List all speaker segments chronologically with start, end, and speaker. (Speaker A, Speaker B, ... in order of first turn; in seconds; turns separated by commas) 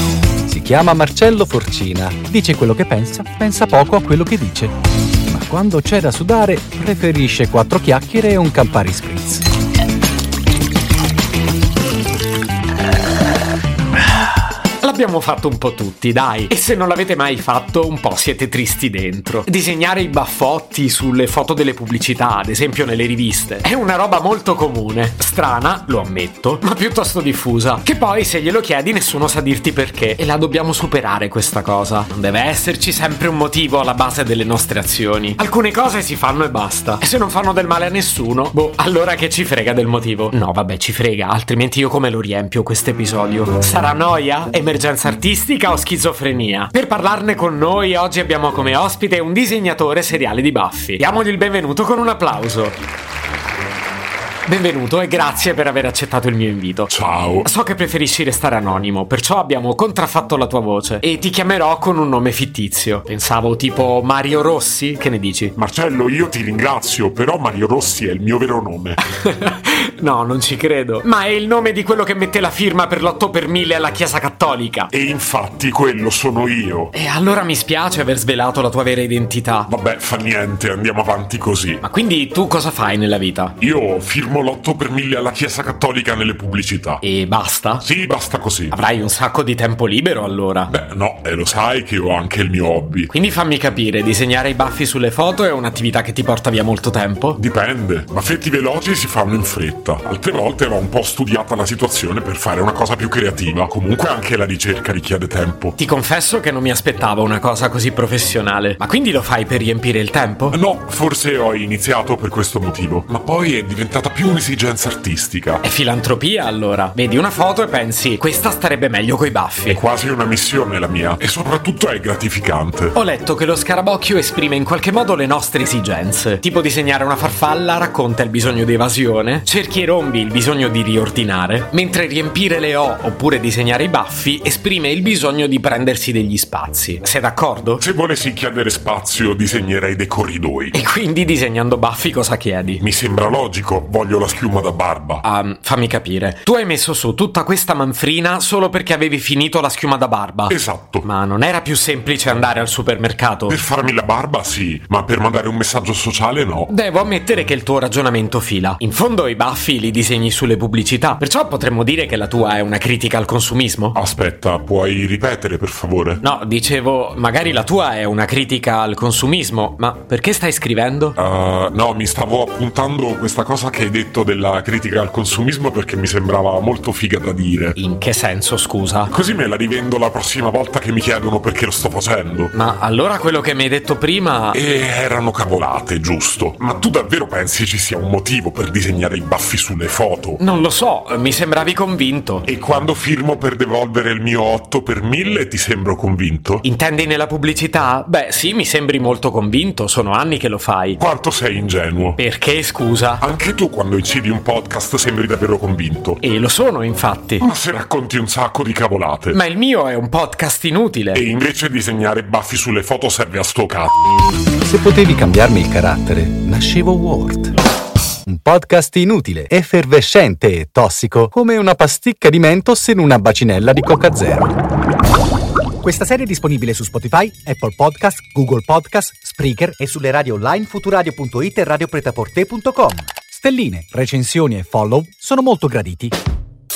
Speaker A: 0.5-4.7, Speaker A: 5.3-9.4, Speaker B: 14.8-52.8, Speaker B: 54.5-56.9, Speaker C: 56.9-57.5, Speaker B: 57.4-65.5, Speaker C: 65.5-69.0, Speaker B: 69.0-74.9, Speaker C: 74.9-76.9, Speaker B: 76.9-79.7, Speaker C: 79.7-81.8, Speaker B: 81.8-83.5, Speaker C: 83.6-87.0, Speaker B: 87.0-87.8, Speaker C: 87.8-88.7, Speaker B: 88.7-90.7, Speaker C: 90.7-93.1, Speaker B: 93.1-97.4, Speaker C: 97.4-105.8, Speaker B: 105.8-110.6, Speaker C: 110.5-115.6, Speaker B: 115.6-119.8, Speaker C: 119.7-122.9, Speaker B: 122.9-137.8, Speaker C: 137.8-140.8, Speaker B: 140.7-142.8, Speaker C: 142.8-145.2, Speaker B: 145.2-153.6, Speaker C: 150.5-151.0, Speaker C: 153.5-156.7, Speaker B: 156.7-164.0, Speaker C: 163.9-166.2, Speaker B: 166.2-171.2, Speaker C: 171.2-177.8, Speaker B: 177.8-179.1, Speaker C: 179.1-182.5, Speaker B: 182.5-184.6, Speaker C: 184.5-190.4, Speaker B: 190.4-192.4, Speaker C: 192.4-196.6, Speaker B: 196.6-201.0, Speaker C: 201.0-202.2, Speaker B: 202.2-203.2, Speaker C: 203.2-206.2, Speaker B: 206.2-207.5, Speaker C: 207.4-209.4, Speaker B: 209.3-211.2, Speaker C: 211.1-213.9, Speaker A: 214.6-217.5, Speaker A: 218.2-224.6, Speaker A: 225.8-236.2